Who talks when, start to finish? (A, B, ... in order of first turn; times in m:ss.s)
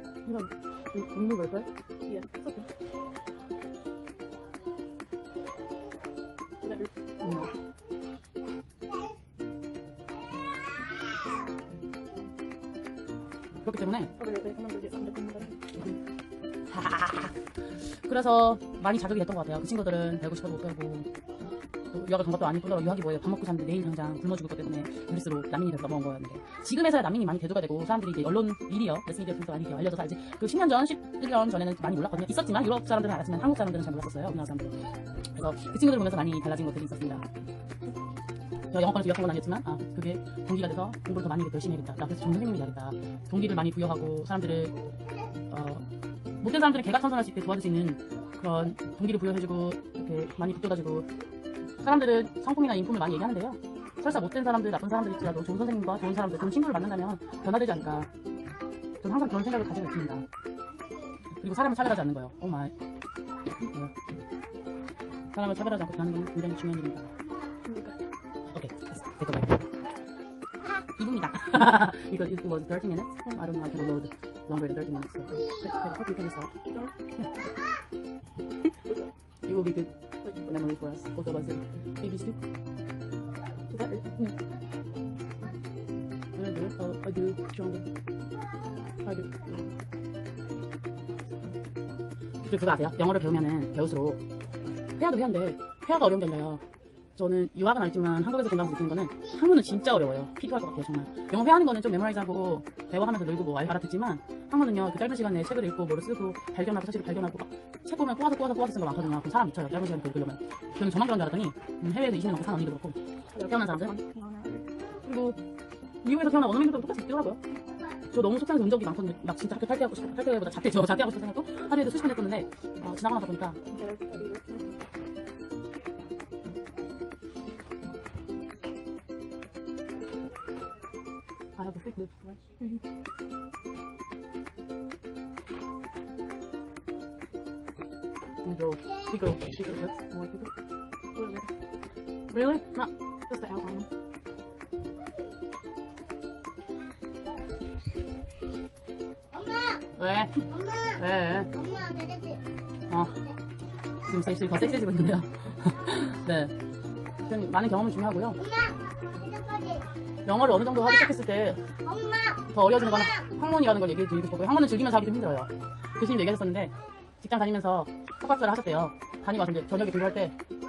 0:00.2-0:01.7 A
0:02.1-0:02.7 B
0:06.6-0:06.9 B
0:07.2-0:07.5 A
0:13.6-0:14.1 A
0:14.2-0:15.6 B
0:16.7-0:21.1 A
0:21.9-0:37.2 A
0:38.7-0:44.8 A
0:45.5-0:45.8 A
0:46.4-0:51.1 A
0:51.8-0:58.1 A
0:59.0-1:00.2 A
1:01.4-1:02.7 A
1:03.7-1:03.9 A
1:05.3-1:07.1 A
1:07.6-1:08.0 B
1:08.5-1:09.6 A
1:11.0-1:16.5 A
1:16.7-1:16.9 B
1:19.5-1:22.4 A
1:23.7-1:24.0 B
1:23.8-1:24.3 A
1:26.3-1:27.8 A
1:29.0-1:29.5 A
1:32.5-1:34.2 A
1:35.0-1:36.6 A
1:37.2-1:53.9 A
1:53.3-1:54.7 B
1:55.0-1:55.4 A
1:56.0-1:57.4 A
1:58.1-2:03.6 A
2:03.6-2:04.6 B
2:11.6-2:12.4 A
2:18.4-2:20.5 A
2:21.2-2:21.5 B
2:22.3-2:23.8 A
2:29.3-2:29.8 C
2:29.9-2:31.5 A
2:30.5-2:30.9 C
2:31.5-2:32.4 C
2:32.9-2:33.2 A
2:34.0-2:36.5 A
2:37.2-2:38.5 A
2:38.4-2:39.9 C
2:40.2-2:41.6 A
2:41.8-2:42.5 C
2:42.4-2:50.4 A